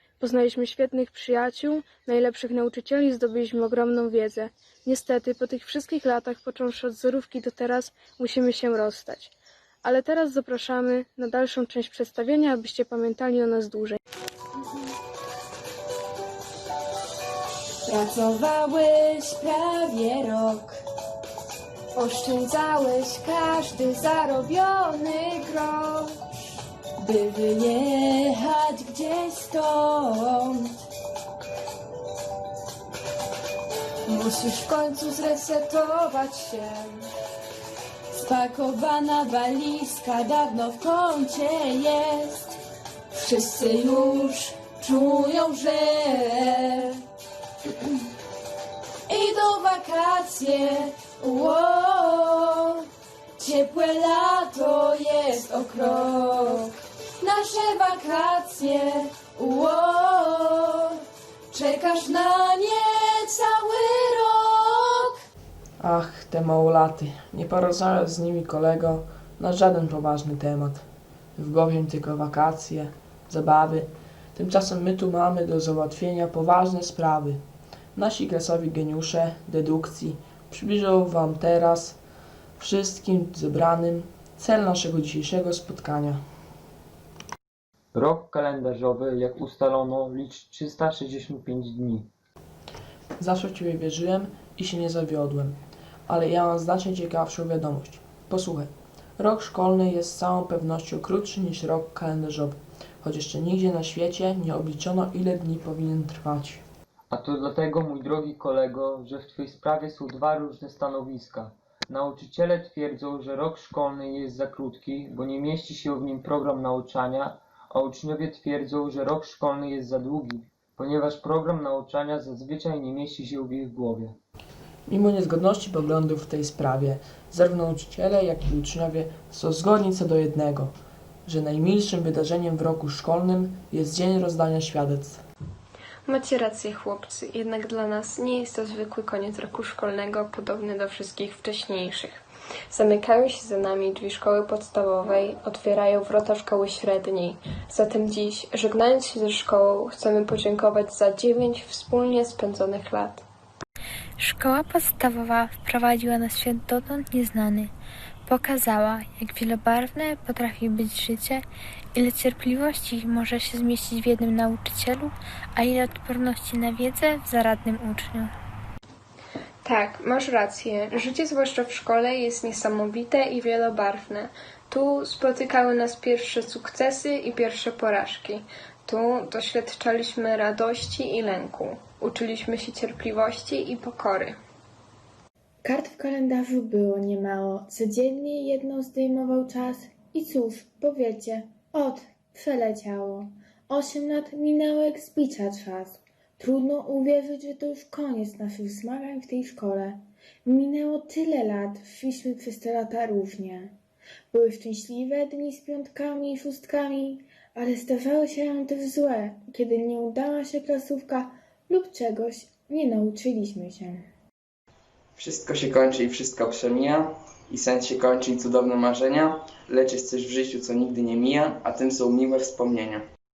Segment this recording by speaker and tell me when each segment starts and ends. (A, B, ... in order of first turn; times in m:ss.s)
0:00.2-0:09.3 A
0:09.8-0:14.0 A
0:18.0-0:20.7 B
0:22.0-0:26.1 B
0:28.8-0:29.5 B
0:34.1-0:37.0 B
0:43.4-0:45.0 B
0:49.3-0:50.4 B
0:53.6-0:54.0 B
0:54.8-0:56.6 B
0:57.2-0:58.6 B
1:05.8-1:17.4 C
1:18.0-1:22.0 C
1:22.6-1:26.2 C
1:27.9-1:32.1 D
1:33.2-1:46.6 C
1:47.1-2:04.2 D
2:04.9-2:10.8 C
2:11.3-2:15.2 C
2:16.1-2:33.2 E
2:34.2-2:37.7 F
2:38.3-2:48.3 F
2:49.6-3:04.4 E
3:05.6-3:23.7 G
3:24.3-3:34.0 G
3:35.2-3:43.0 H